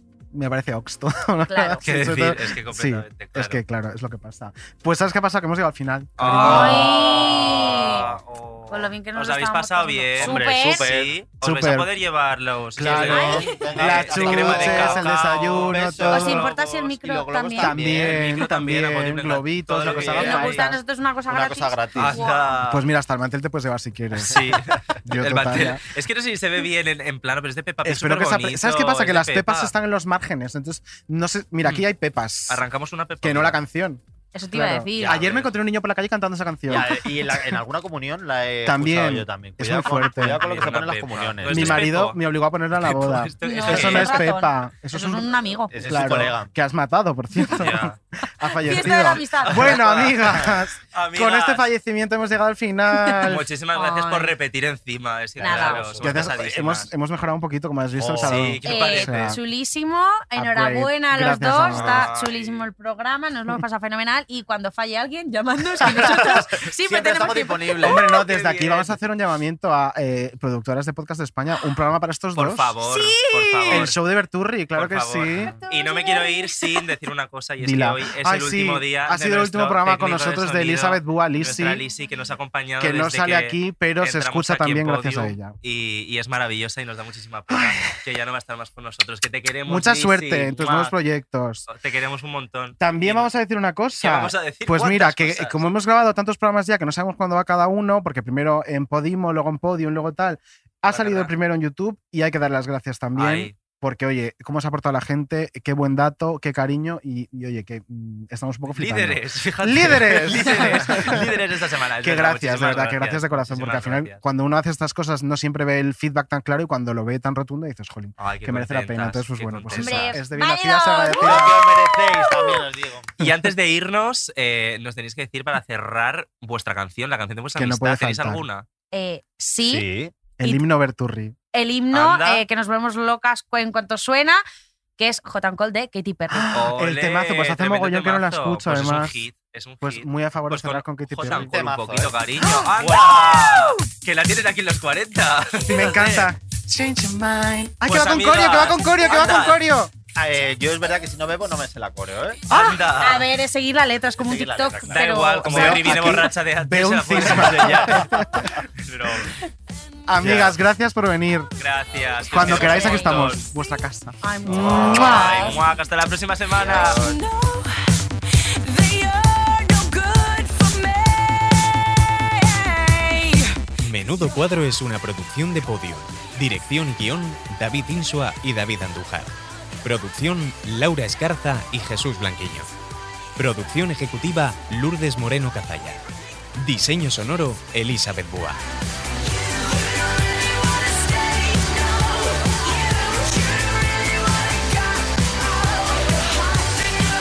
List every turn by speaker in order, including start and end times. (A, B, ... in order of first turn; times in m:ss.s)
0:00.3-0:07.1 A
0:01.5-0:01.9 B
0:01.8-0:03.6 C
0:06.2-0:16.5 C
0:06.4-0:08.0 B
0:07.9-0:08.2 D
0:08.7-0:10.9 B
0:10.2-0:11.1 D
0:11.3-0:11.9 A
0:12.8-0:16.4 A
0:12.8-0:18.4 D
0:13.0-0:13.6 B
0:16.1-0:17.8 B
0:17.6-0:20.8 A
0:18.0-0:20.6 C
0:19.8-0:20.6 D
0:20.2-0:22.6 B
0:21.3-0:22.3 D
0:22.0-0:22.9 C
0:22.6-0:25.8 A
0:24.2-0:29.7 C
0:27.8-0:32.6 A
0:32.5-0:33.6 C
0:33.2-0:37.6 A
0:34.3-0:35.1 B
0:35.0-0:35.5 C
0:36.7-0:41.9 D
0:38.6-0:40.4 A
0:40.2-0:42.2 C
0:41.4-0:53.5 A
0:42.8-0:44.2 C
0:43.4-0:45.7 B
0:45.7-0:46.5 D
0:47.6-0:48.0 C
0:48.6-0:49.8 B
0:49.4-0:51.7 C
0:53.2-0:56.9 C
0:53.7-0:54.4 B
0:55.4-0:56.3 D
0:55.4-0:55.9 B
0:56.0-0:59.4 A
0:58.0-0:58.6 D
0:58.2-0:59.4 C
0:58.6-1:08.0 B
1:00.4-1:02.0 A
1:01.7-1:02.6 C
1:01.8-1:02.1 D
1:05.8-1:08.2 D
1:07.8-1:12.8 A
1:08.3-1:09.0 C
1:12.4-1:14.0 C
1:12.8-1:13.9 B
1:13.7-1:15.5 A
1:14.7-1:31.0 C
1:15.5-1:16.9 B
1:17.6-1:21.8 A
1:22.8-1:25.6 A
1:27.5-1:27.8 A
1:29.7-1:31.7 A
1:31.7-1:33.3 C
1:32.8-1:51.4 A
1:34.0-1:35.6 C
1:40.9-1:41.3 C
1:43.2-1:43.6 C
1:48.7-1:54.2 C
1:52.0-2:01.7 A
1:58.2-2:00.2 C
1:59.7-2:02.7 B
2:01.2-2:03.2 D
2:03.2-2:08.7 C
2:07.6-2:08.4 A
2:08.9-2:09.9 B
2:09.6-2:10.1 D
2:10.4-2:11.4 A
2:11.5-2:14.4 B
2:11.9-2:12.4 C
2:15.0-2:16.5 B
2:16.3-2:19.2 A
2:16.5-2:26.3 C
2:19.8-2:21.5 A
2:21.3-2:22.2 D
2:22.4-2:23.7 A
2:22.8-2:23.7 D
2:25.6-2:29.9 A
2:27.8-2:29.6 C
2:30.2-2:32.4 D
2:32.5-2:33.3 C
2:32.5-2:35.9 B
2:34.2-2:35.6 D
2:34.9-2:38.3 C
2:35.4-2:38.5 A
2:37.8-2:38.1 D
2:38.8-2:39.3 C
2:40.1-2:41.5 A
2:40.2-2:40.5 C
2:40.2-2:40.5 D
2:41.6-2:43.5 C
2:41.9-2:42.6 D
2:42.3-2:45.3 A
2:42.5-2:43.2 B
2:44.2-2:45.5 B
2:44.5-2:45.6 D
2:44.5-2:47.0 C
2:46.5-2:47.2 D
2:46.8-2:47.7 B
2:48.7-2:51.1 B
2:52.4-2:53.4 B
2:53.8-3:02.7 E
3:03.4-3:06.0 E
3:06.6-3:08.6 E